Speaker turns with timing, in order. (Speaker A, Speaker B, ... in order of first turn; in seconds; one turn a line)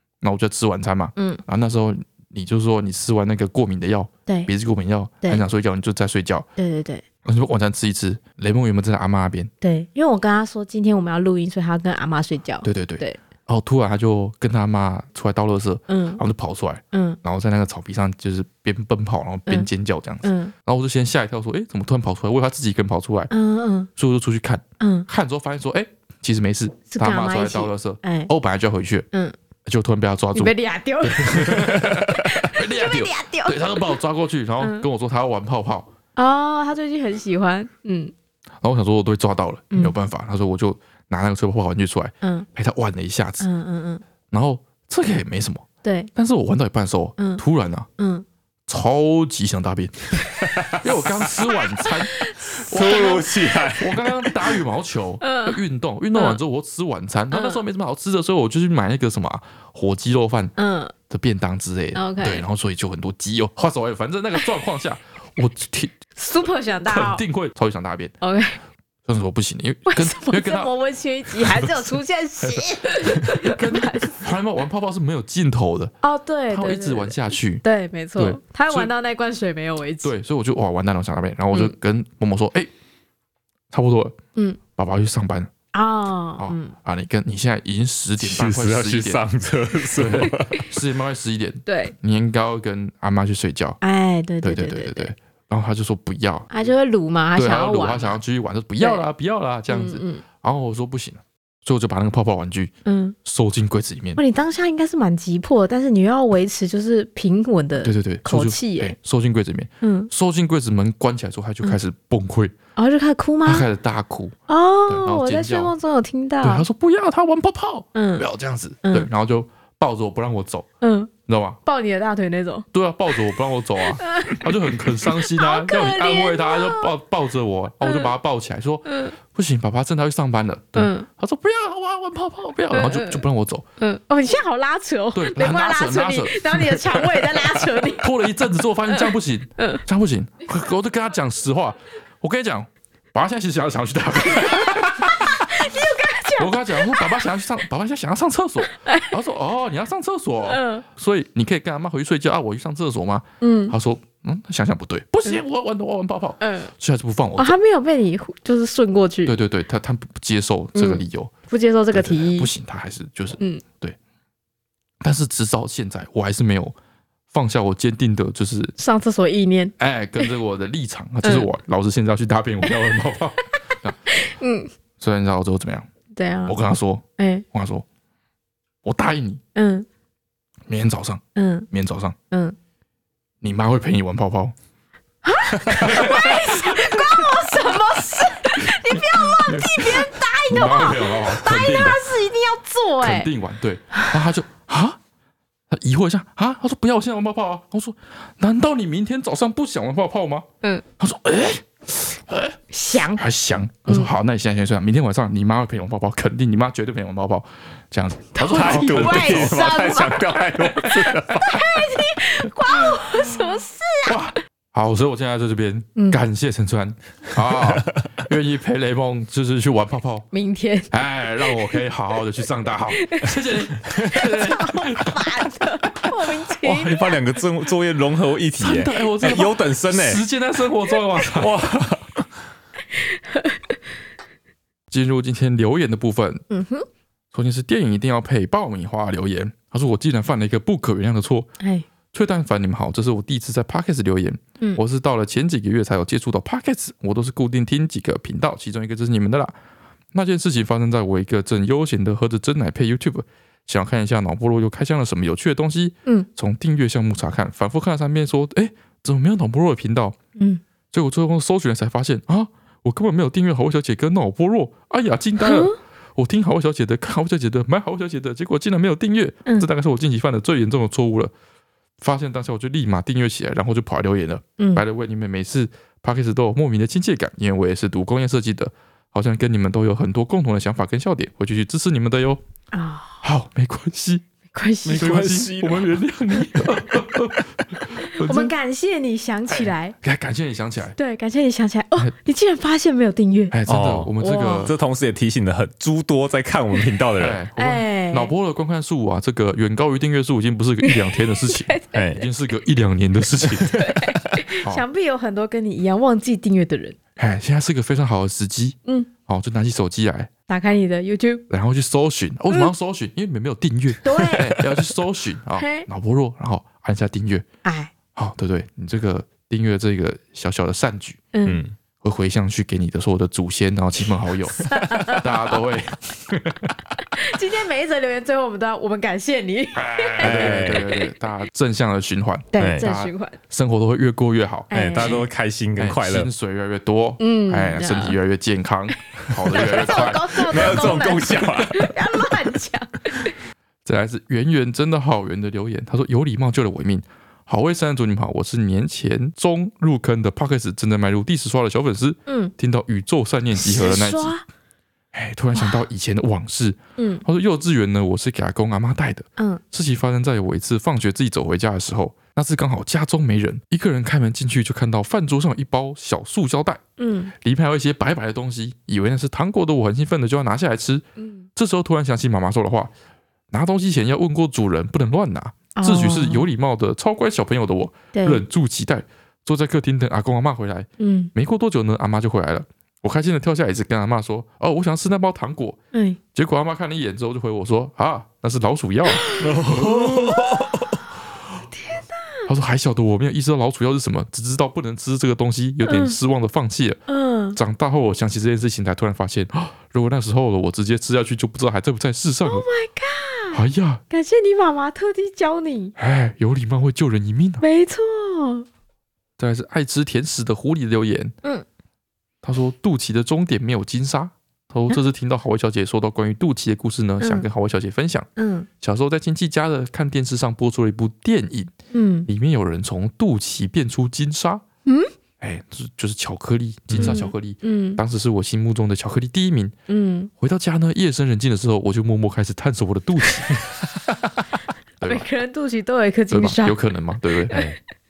Speaker A: 0.2-6.5
Speaker B: 1.1-1.4
Speaker B: 6.6-7.0
Speaker A: 7.2-9.5
Speaker B: 9.6-13.2
Speaker A: 12.6-23.3
Speaker B: 15.9-16.2
Speaker B: 16.9-17.2
Speaker B: 20.2-20.5
Speaker B: 23.3-23.9
Speaker A: 23.9-29.1
Speaker B: 24.8-25.1
Speaker B: 26.9-28.3
Speaker A: 29.6-35.9
Speaker B: 30.3-33.6
Speaker B: 36.1-38.1
Speaker A: 38.6-43.5
Speaker B: 42.2-42.5
Speaker B: 43.4-44.0
Speaker A: 44.3-47.9
Speaker B: 45.8-46.1
Speaker B: 47.2-47.4
Speaker B: 48.0-48.2
Speaker A: 48.7-60.5
Speaker B: 51.8-53.3
Speaker C: 52.6-54.0
Speaker B: 55.2-55.6
Speaker B: 57.3-57.6
Speaker B: 60.6-60.9
Speaker A: 61.1-66.0
Speaker B: 61.9-62.4
Speaker B: 66.2-67.2
Speaker A: 66.8-68.1
Speaker B: 68.2-68.6
Speaker A: 69.0-70.7
Speaker B: 69.8-74.2
Speaker A: 71.3-75.9
Speaker B: 76.0-80.1
Speaker A: 76.5-77.6
Speaker A: 78.2-78.9
Speaker A: 80.0-82.7
Speaker A: 83.7-84.2
Speaker A: 84.8-85.5
Speaker B: 85.7-86.7
Speaker A: 86.4-89.2
Speaker C: 88.2-90.7
Speaker A: 89.9-93.8
Speaker B: 91.7-91.9
Speaker B: 93.8-95.1
Speaker A: 94.4-96.5
Speaker B: 96.5-98.2
Speaker A: 97.3-102.7
Speaker B: 99.7-100.2
Speaker B: 102.8-103.2
Speaker A: 103.2-104.2
Speaker B: 104.2-108.9
Speaker A: 107.8-112.5
Speaker B: 109.8-110.1
Speaker B: 112.8-113.7
Speaker A: 113.4-115.7
Speaker B: 114.5-116.7
Speaker A: 116.4-120.7
Speaker B: 117.9-118.2
Speaker B: 118.8-119.1
Speaker B: 120.8-121.1
Speaker A: 121.3-121.6
Speaker B: 121.6-122.7
Speaker A: 122.7-133.7
Speaker B: 123.8-126.9
Speaker B: 127.8-128.1
Speaker B: 128.8-129.2
Speaker B: 130.8-131.1
Speaker B: 132.7-133.2
Speaker B: 133.8-138.1
Speaker A: 135.1-145.7
Speaker B: 138.9-139.8
Speaker B: 144.3-147.2
Speaker A: 146.4-157.6
Speaker B: 148.7-149.2
Speaker B: 150.4-150.8
Speaker B: 153.4-153.7
Speaker B: 156.4-156.7
Speaker B: 157.4-159.3
Speaker A: 159.2-161.3
Speaker B: 160.7-162.5
Speaker A: 161.9-164.0
Speaker B: 163.4-163.6
Speaker A: 165.0-166.7
Speaker A: 167.3-168.7
Speaker B: 168.8-170.3
Speaker A: 169.8-174.0
Speaker B: 171.2-171.5
Speaker B: 174.1-174.7
Speaker A: 175.0-175.9
Speaker B: 176.1-176.6
Speaker A: 176.4-177.8
Speaker B: 177.2-177.4
Speaker A: 178.8-179.4
Speaker B: 179.5-179.9
Speaker A: 180.7-182.1
Speaker B: 181.3-181.7
Speaker B: 182.3-182.6
Speaker A: 183.4-184.5
Speaker B: 185.2-193.3
Speaker A: 185.7-187.4
Speaker A: 188.6-192.0
Speaker A: 193.0-195.0
Speaker A: 195.7-200.4
Speaker A: 201.0-202.6
Speaker B: 202.7-203.2
Speaker A: 203.1-209.7
Speaker B: 208.3-214.3
Speaker C: 208.4-211.5
Speaker A: 212.7-213.4
Speaker A: 214.1-220.3
Speaker C: 217.6-217.9
Speaker B: 220.3-221.8
Speaker A: 220.9-225.5
Speaker B: 222.9-223.3
Speaker B: 224.1-227.2
Speaker C: 226.6-230.2
Speaker A: 228.6-231.6
Speaker C: 231.3-232.2
Speaker B: 232.9-233.8
Speaker A: 234.9-236.4
Speaker B: 236.5-236.8
Speaker A: 237.3-241.5
Speaker B: 241.6-241.8
Speaker A: 242.1-249.5
Speaker A: 250.1-260.1
Speaker A: 260.9-271.3
Speaker B: 265.4-265.8
Speaker A: 272.0-282.4
Speaker B: 274.6-274.8
Speaker B: 282.7-283.2
Speaker A: 283.2-284.2
Speaker B: 284.5-285.2
Speaker C: 284.8-286.0
Speaker A: 285.0-288.5
Speaker B: 287.9-289.9
Speaker A: 289.5-290.9
Speaker B: 290.9-293.6
Speaker A: 293.5-294.7
Speaker C: 293.7-297.4
Speaker B: 294.2-294.7
Speaker A: 297.2-304.0
Speaker B: 297.6-298.3
Speaker B: 300.8-302.2
Speaker C: 301.9-302.2
Speaker B: 303.6-306.9
Speaker A: 307.2-310.3
Speaker B: 310.5-311.4
Speaker A: 311.5-317.4
Speaker B: 314.0-314.8
Speaker B: 315.6-315.9
Speaker B: 317.6-317.9
Speaker A: 318.1-321.2
Speaker B: 321.3-321.6
Speaker C: 321.4-321.7
Speaker A: 322.0-326.7
Speaker B: 324.6-325.4
Speaker B: 327.1-331.1
Speaker A: 329.7-335.2
Speaker C: 330.2-330.9
Speaker B: 332.5-333.4
Speaker C: 332.6-332.8
Speaker B: 334.7-335.2
Speaker C: 334.7-336.3
Speaker A: 335.8-341.1
Speaker B: 337.2-338.2
Speaker C: 339.5-342.3
Speaker B: 339.5-343.3
Speaker A: 343.8-354.3
Speaker B: 352.3-352.5
Speaker B: 353.5-354.4
Speaker A: 355.1-366.8
Speaker B: 357.0-357.2
Speaker B: 367.0-367.3
Speaker A: 367.4-372.9
Speaker B: 371.2-371.5
Speaker A: 373.5-385.8
Speaker B: 375.7-376.5
Speaker B: 378.1-378.4
Speaker B: 381.0-381.3
Speaker B: 385.9-386.2
Speaker A: 386.3-390.4
Speaker B: 389.1-390.7
Speaker C: 389.4-391.0
Speaker B: 391.7-392.5
Speaker A: 392.5-397.0
Speaker B: 395.8-396.2
Speaker B: 397.1-397.6
Speaker A: 397.5-402.6
Speaker B: 402.4-405.9
Speaker A: 403.5-404.0
Speaker A: 406.0-407.6
Speaker B: 407.6-408.6
Speaker A: 409.4-411.3
Speaker A: 412.4-418.3
Speaker B: 417.2-417.5
Speaker B: 418.4-418.7
Speaker A: 418.8-421.7
Speaker B: 421.9-422.3
Speaker A: 422.3-424.6
Speaker B: 424.9-425.1
Speaker A: 425.4-429.7
Speaker C: 426.9-427.2
Speaker B: 427.0-428.0
Speaker B: 429.9-430.3
Speaker A: 430.4-433.6
Speaker A: 435.0-435.2
Speaker B: 435.0-436.8
Speaker A: 436.3-437.7